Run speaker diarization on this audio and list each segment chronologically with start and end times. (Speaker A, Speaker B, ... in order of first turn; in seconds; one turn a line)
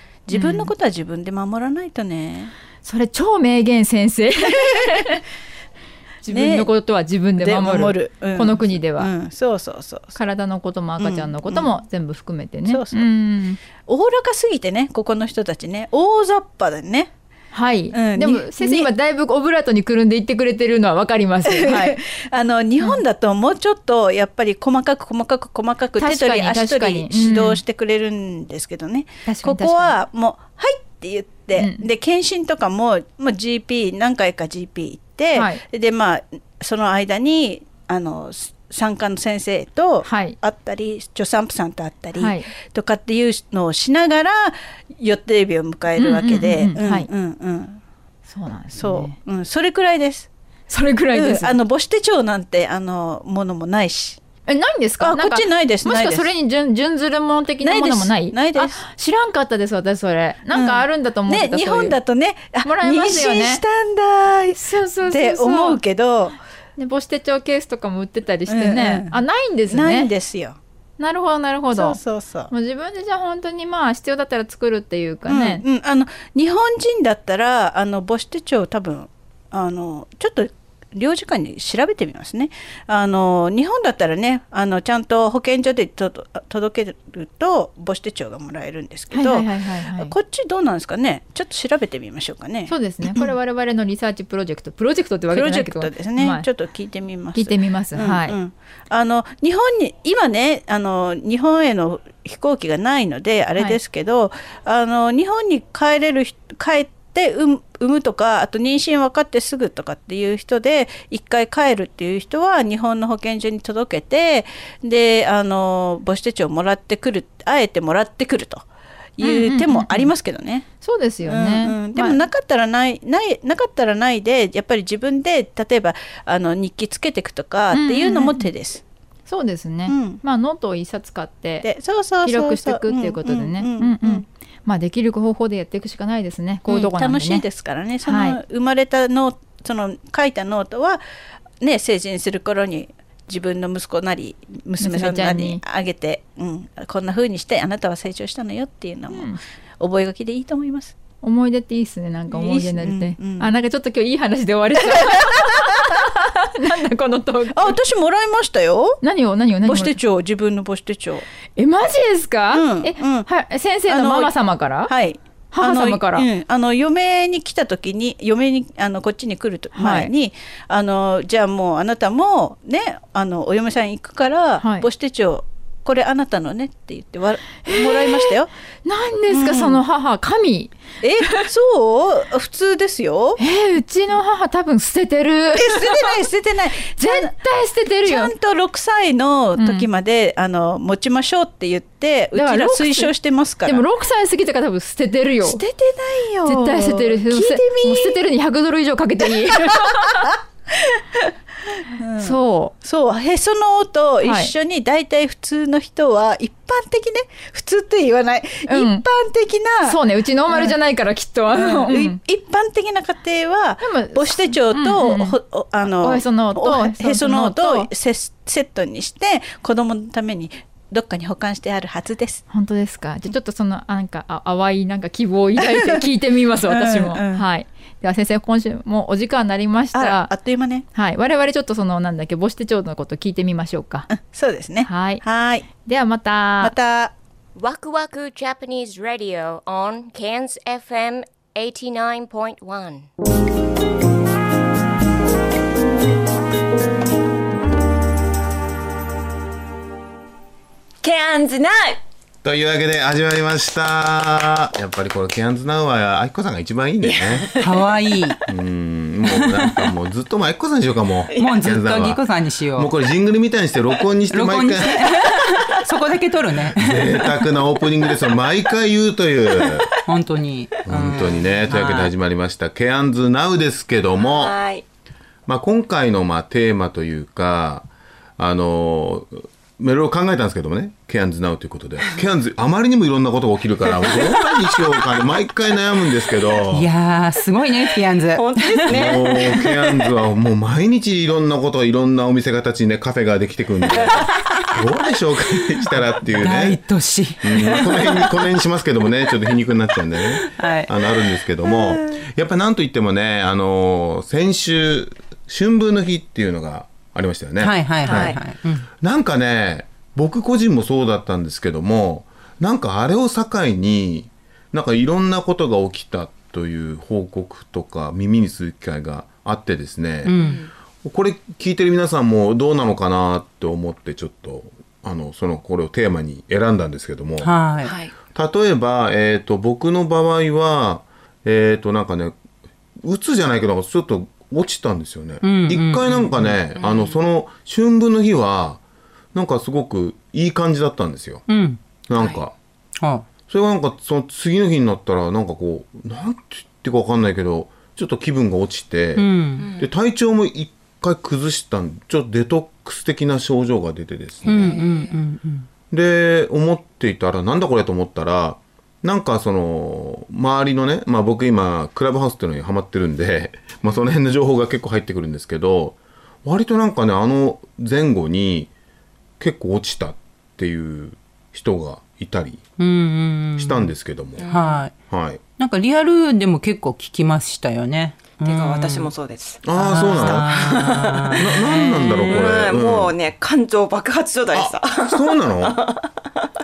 Speaker A: 0.3-2.5
Speaker B: 0.3-0.7
Speaker B: 2.8-5.2
Speaker B: 6.2-9.1
Speaker A: 6.3-6.7
Speaker A: 7.4-10.2
Speaker B: 10.1-13.6
Speaker A: 11.0-11.7
Speaker A: 12.7-13.0
Speaker A: 13.8-17.1
Speaker B: 17.5-22.0
Speaker A: 17.9-18.9
Speaker A: 21.5-47.8
Speaker B: 26.0-27.6
Speaker B: 29.2-30.0
Speaker B: 31.6-31.9
Speaker B: 35.3-35.6
Speaker B: 40.0-40.4
Speaker B: 42.1-42.5
Speaker B: 45.9-47.1
Speaker B: 48.3-49.1
Speaker A: 48.8-50.3
Speaker B: 50.7-51.6
Speaker A: 51.1-54.2
Speaker B: 54.5-62.0
Speaker A: 55.0-56.3
Speaker A: 57.6-58.8
Speaker A: 60.5-66.3
Speaker B: 62.6-63.6
Speaker B: 64.5-65.8
Speaker B: 66.8-70.1
Speaker A: 68.5-69.2
Speaker A: 69.7-70.6
Speaker B: 71.0-72.0
Speaker A: 71.7-72.5
Speaker B: 72.5-75.6
Speaker A: 75.3-93.3
Speaker B: 89.1-90.1
Speaker B: 92.7-96.5
Speaker A: 95.3-118.6
Speaker B: 97.3-98.4
Speaker A: 119.2-120.7
Speaker B: 119.2-120.1
Speaker B: 120.8-122.2
Speaker A: 121.2-128.8
Speaker B: 127.7-128.5
Speaker B: 129.3-131.7
Speaker A: 129.9-130.2
Speaker A: 131.6-134.2
Speaker B: 132.2-137.4
Speaker A: 136.7-141.0
Speaker B: 138.0-138.4
Speaker A: 141.6-150.9
Speaker B: 144.8-145.6
Speaker B: 149.1-149.4
Speaker B: 151.2-157.8
Speaker A: 152.3-153.5
Speaker A: 154.9-155.3
Speaker A: 157.5-159.0
Speaker B: 159.0-160.0
Speaker A: 159.6-161.2
Speaker B: 161.6-164.9
Speaker A: 162.5-163.3
Speaker A: 163.9-178.5
Speaker B: 165.5-166.3
Speaker B: 169.7-170.1
Speaker B: 174.6-174.9
Speaker B: 177.6-180.8
Speaker A: 179.3-179.8
Speaker A: 181.0-183.4
Speaker B: 183.4-186.1
Speaker A: 185.6-187.3
Speaker B: 187.0-188.3
Speaker A: 188.0-193.8
Speaker B: 189.6-189.9
Speaker B: 192.3-193.1
Speaker B: 193.6-195.6
Speaker A: 195.4-198.2
Speaker B: 196.4-200.2
Speaker A: 199.5-201.3
Speaker A: 201.8-210.8
Speaker B: 202.2-202.7
Speaker B: 204.2-204.5
Speaker B: 208.7-209.0
Speaker B: 209.8-212.2
Speaker A: 211.5-222.4
Speaker B: 213.8-215.4
Speaker B: 215.9-217.9
Speaker B: 222.5-230.3
Speaker A: 226.7-227.4
Speaker A: 229.9-230.8
Speaker B: 230.9-234.1
Speaker A: 234.1-235.7
Speaker B: 234.8-235.2
Speaker B: 235.7-236.7
Speaker A: 236.6-237.1
Speaker C: 237.5-243.1
Speaker D: 251.0-252.0
Speaker E: 252.4-257.5
Speaker D: 257.0-257.7
Speaker F: 257.6-258.4
Speaker E: 258.5-265.0
Speaker F: 259.3-259.9
Speaker F: 261.4-262.9
Speaker F: 264.3-267.4
Speaker E: 266.8-269.9
Speaker F: 270.1-272.1
Speaker E: 270.9-274.5
Speaker D: 274.2-274.8
Speaker E: 275.5-286.9
Speaker D: 283.9-284.8
Speaker F: 286.7-289.4
Speaker D: 288.3-290.1
Speaker E: 288.9-296.8
Speaker D: 293.9-294.3
Speaker F: 296.2-298.4
Speaker E: 297.4-308.4
Speaker F: 300.4-300.9
Speaker F: 307.6-308.9
Speaker D: 308.0-308.4
Speaker E: 309.0-320.3
Speaker F: 320.2-320.6
Speaker D: 320.3-320.7
Speaker E: 321.0-327.6
Speaker F: 327.4-327.9
Speaker D: 327.8-328.1
Speaker E: 328.2-332.4
Speaker E: 333.0-338.8
Speaker F: 335.4-336.6
Speaker D: 336.8-337.2
Speaker E: 339.3-341.4
Speaker F: 341.5-341.8
Speaker E: 342.1-342.5
Speaker D: 342.2-342.4
Speaker F: 343.0-343.2
Speaker E: 343.5-354.8
Speaker F: 349.2-349.7
Speaker D: 349.6-349.9
Speaker F: 354.4-355.7
Speaker D: 354.5-355.2
Speaker E: 355.9-368.7
Speaker E: 369.4-372.6
Speaker F: 372.8-373.9
Speaker E: 373.6-374.4
Speaker D: 374.4-374.9
Speaker F: 374.4-374.9
Speaker E: 375.1-375.4
Speaker F: 375.6-379.1
Speaker D: 378.4-386.1
Speaker E: 379.6-380.5
Speaker F: 379.7-382.5
Speaker E: 381.4-383.1
Speaker E: 384.5-385.8